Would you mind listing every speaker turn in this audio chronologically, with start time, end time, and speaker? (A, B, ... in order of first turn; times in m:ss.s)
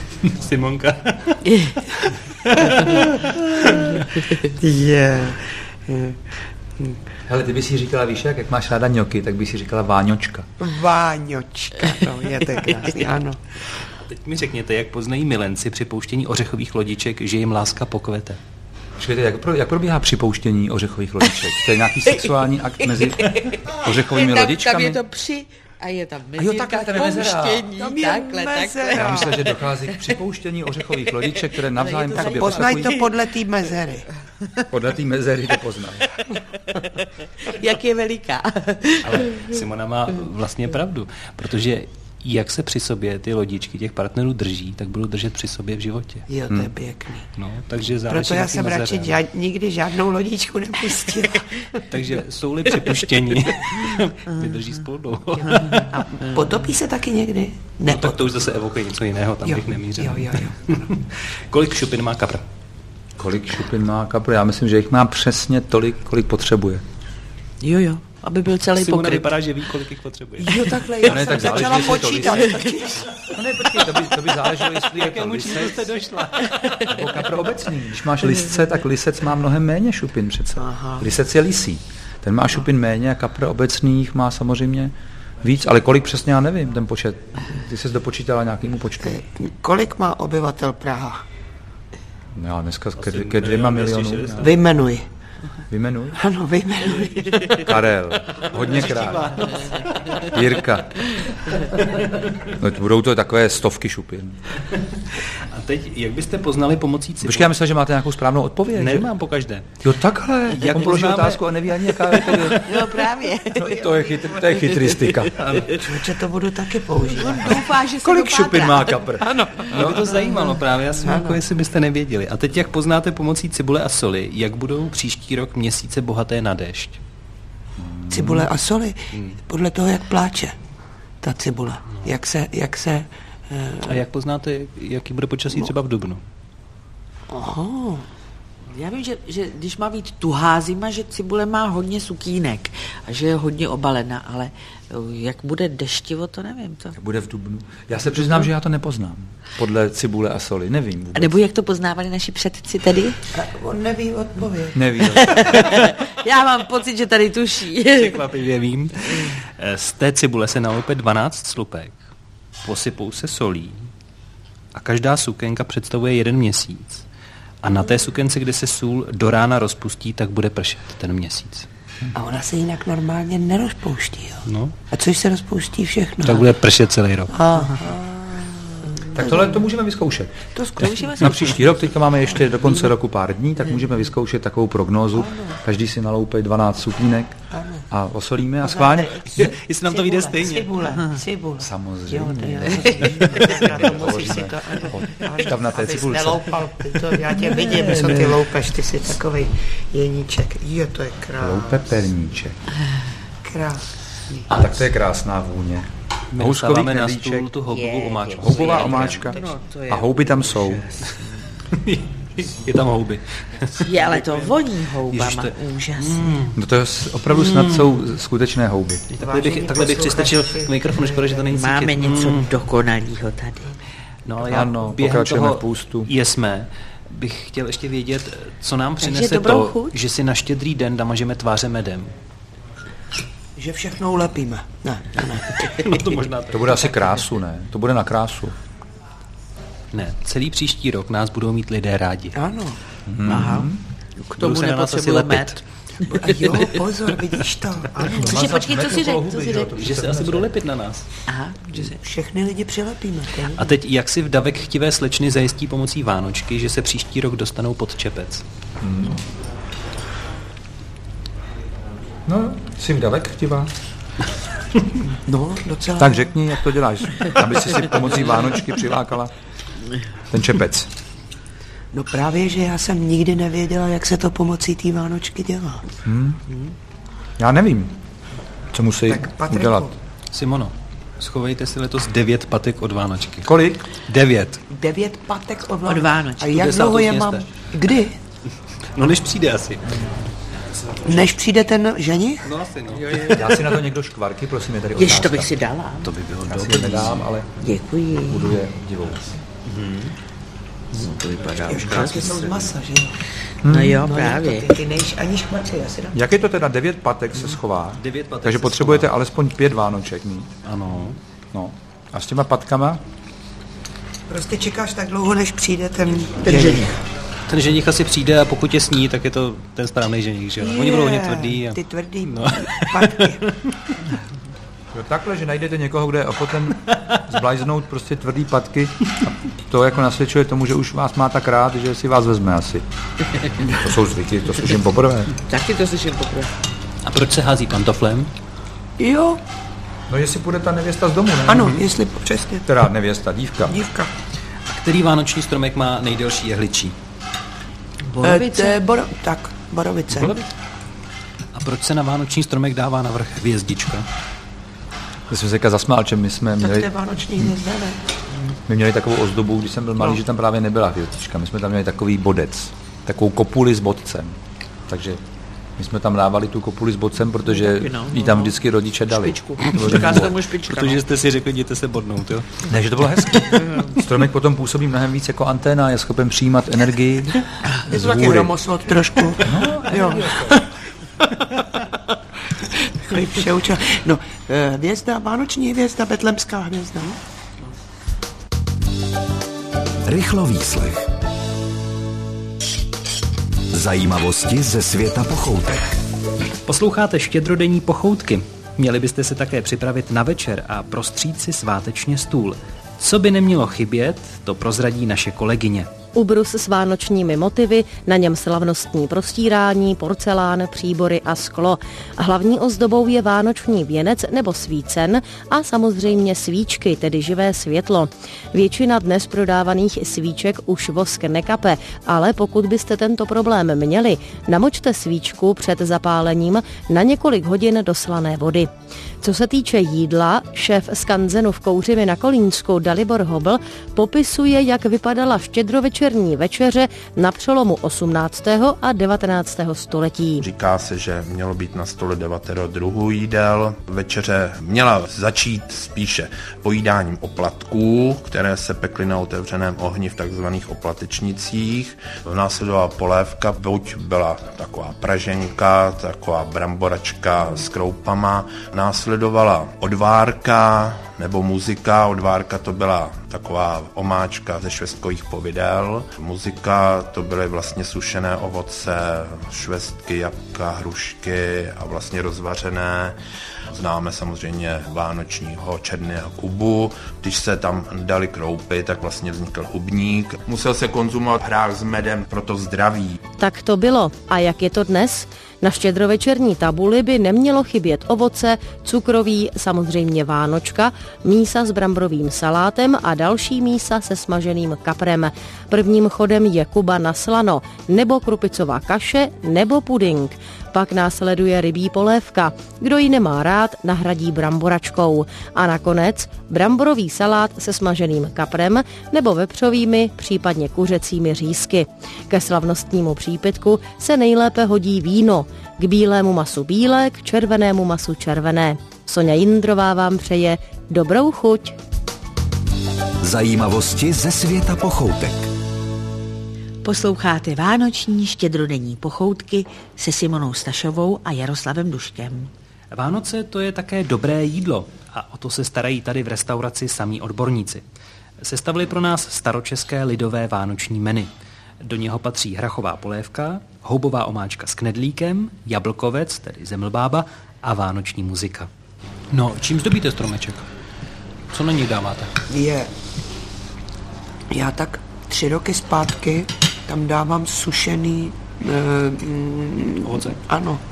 0:00.2-0:01.4 A
0:01.4-0:01.8 B
0:02.0-0:07.0 C
0:02.3-0:03.0 A
0:07.3-0:10.5 D
0:10.6-0:13.4 C
0:14.0-0:18.4 A
0:19.0-0:25.0 D
0:22.8-0:30.0 B
0:26.4-0:27.7 D
0:27.7-0:29.5 C
0:28.9-0:33.0 D
0:31.4-0:33.1 B
0:32.2-0:34.1 C
0:34.7-0:36.2 D
0:36.7-0:39.5 B
0:39.0-0:46.3 A
0:46.3-0:47.3 C
0:47.4-0:49.2 A
0:48.1-0:51.9 C
0:51.9-0:55.9 A
0:54.3-0:54.7 B
0:55.4-0:56.6 B
0:55.8-0:58.3 C
0:57.8-1:02.4 A
0:59.4-1:01.0 C
1:03.2-1:06.8 D
1:07.6-1:09.4 B
1:08.7-1:10.6 A
1:10.4-1:13.2 C
1:11.0-1:12.7 D
1:13.3-1:15.9 D
1:14.8-1:17.0 A
1:16.8-1:29.2 D
1:20.6-1:21.1 C
1:29.0-1:31.2 C
1:32.4-1:34.6 D
1:33.0-1:34.6 A
1:34.4-1:35.1 C
1:35.7-1:36.2 D
1:36.2-1:37.7 C
1:37.6-1:39.5 D
1:38.5-1:40.4 A
1:40.2-1:41.2 D
1:41.7-1:42.3 A
1:42.5-1:44.4 D
1:44.9-1:47.5 A
1:47.2-1:49.1 D
1:48.7-1:49.8 A
1:49.8-1:52.7 D
1:50.5-1:52.6 A
1:52.5-1:53.8 B
1:53.6-1:55.3 D
1:53.6-1:54.6 C
1:54.7-1:55.7 B
1:55.4-1:55.7 A
1:55.7-1:57.6 C
1:57.1-1:59.2 B
1:57.4-2:00.1 D
1:59.3-2:01.4 C
1:59.7-2:07.0 A
2:07.8-2:08.5 D
2:08.1-2:10.6 C
2:11.2-2:14.0 C
2:13.8-2:16.2 A
2:17.3-2:18.1 C
2:18.7-2:27.0 B
2:27.0-2:31.4 D
2:31.2-2:33.2 B
2:33.3-2:34.9 C
2:34.7-2:35.6 D
2:35.3-2:38.2 B
2:37.9-2:42.0 A
2:42.6-2:43.9 A
2:44.8-2:47.0 A
2:47.6-2:51.7 A
2:52.1-2:56.5 C
2:54.5-2:54.7 A
2:56.2-2:57.3 A
2:57.3-2:59.6 C
2:59.2-3:07.4 D
3:00.6-3:01.6 C
3:05.2-3:05.6 C
3:07.5-3:07.9 C
3:07.9-3:09.4 D
3:08.6-3:21.8 C
3:09.3-3:10.9 A
3:11.6-3:16.5 D
3:13.0-3:15.1 B
3:17.6-3:18.4 D
3:21.4-3:22.6 D
3:23.4-3:24.5 C
3:24.5-3:27.5 D
3:24.5-3:24.8 A
3:26.3-3:29.3 A
3:27.7-3:31.4 B
3:28.4-3:30.8 D
3:31.7-3:34.3 A
3:33.8-3:36.4 B
3:35.1-3:36.6 A
3:36.6-3:39.0 D
3:37.3-3:38.0 A
3:39.1-3:42.5 A
3:39.2-3:41.4 C
3:41.5-3:43.8 B
3:44.3-3:52.1 A
3:44.4-3:46.1 D
3:49.0-3:50.0 B
3:53.6-3:56.2 C
3:55.8-3:57.2 A
3:56.5-3:58.6 D
3:59.9-4:02.4 A
4:02.4-4:02.8 C
4:03.1-4:03.8 D
4:03.3-4:06.7 B
4:04.4-4:05.6 A
4:06.1-4:08.5 C
4:08.1-4:10.5 D
4:08.1-4:09.7 B
4:09.7-4:11.1 A
4:11.3-4:11.9 B
4:11.7-4:13.7 C
4:13.6-4:18.4 A
4:18.8-4:19.2 D
4:22.3-4:23.7 D
4:25.1-4:26.3 C
4:26.0-4:29.3 D
4:30.3-4:30.9 D
4:31.9-4:35.8 C
4:36.0-4:36.4 D
4:37.4-4:38.0 D
4:38.7-4:39.9 D
4:39.1-4:40.0 C
4:40.3-4:44.6 A
4:43.4-4:43.8 D
4:44.7-4:48.2 C
4:45.8-4:46.8 B
4:46.6-4:47.5 A
4:48.9-4:50.2 A
4:51.0-4:52.5 C
4:52.4-4:53.6 A
4:53.3-4:55.5 D
4:55.0-4:56.1 B
4:56.0-4:57.2 A
4:56.4-4:57.5 D
4:57.6-4:58.6 B
4:58.3-4:59.4 D
4:59.7-5:00.1 A
5:01.0-5:02.5 B
5:01.6-5:03.2 C
5:01.7-5:02.6 A
5:03.6-5:04.0 D
5:03.7-5:04.7 B
5:03.9-5:06.2 C
5:06.1-5:10.5 D
5:08.0-5:09.1 A
5:10.6-5:11.2 A
5:11.5-5:13.0 D
5:14.3-5:17.0 C
5:17.5-5:24.0 A
5:20.6-5:23.4 C
5:24.9-5:32.8 D
5:33.6-5:35.3 D
5:35.4-5:36.5 B
5:37.0-5:38.3 A
5:39.0-5:39.4 C
5:40.1-5:41.8 D
5:41.5-5:42.7 C
5:42.7-5:43.8 D
5:43.6-5:44.1 C
5:44.7-5:47.0 A
5:48.2-5:48.7 B
5:48.2-5:50.4 C
5:50.1-5:50.5 A
5:51.5-5:54.1 A
5:55.3-5:56.9 D
5:56.6-5:58.0 C
5:58.7-6:05.2 D
6:05.8-6:10.4 D
6:07.5-6:11.0 B
6:09.7-6:10.0 A
6:10.7-6:12.8 A
6:12.7-6:18.6 D
6:13.4-6:13.7 A
6:17.9-6:20.6 C
6:19.4-6:20.6 D
6:22.5-6:27.2 C
6:30.0-6:31.1 E
6:33.7-6:36.0 E
6:36.7-6:45.9 A
6:46.1-7:20.4 F
7:20.4-8:03.2 G
8:03.4-8:41.8 F
8:43.2-8:45.5 E
8:46.8-8:52.5 B
8:52.9-8:57.8 A
8:58.4-9:01.3 A
9:01.8-9:08.7 A
9:09.3-9:10.7 A
9:11.5-9:12.4 A
9:12.5-9:12.9 C
9:14.5-9:20.8 C
9:20.0-9:20.4 A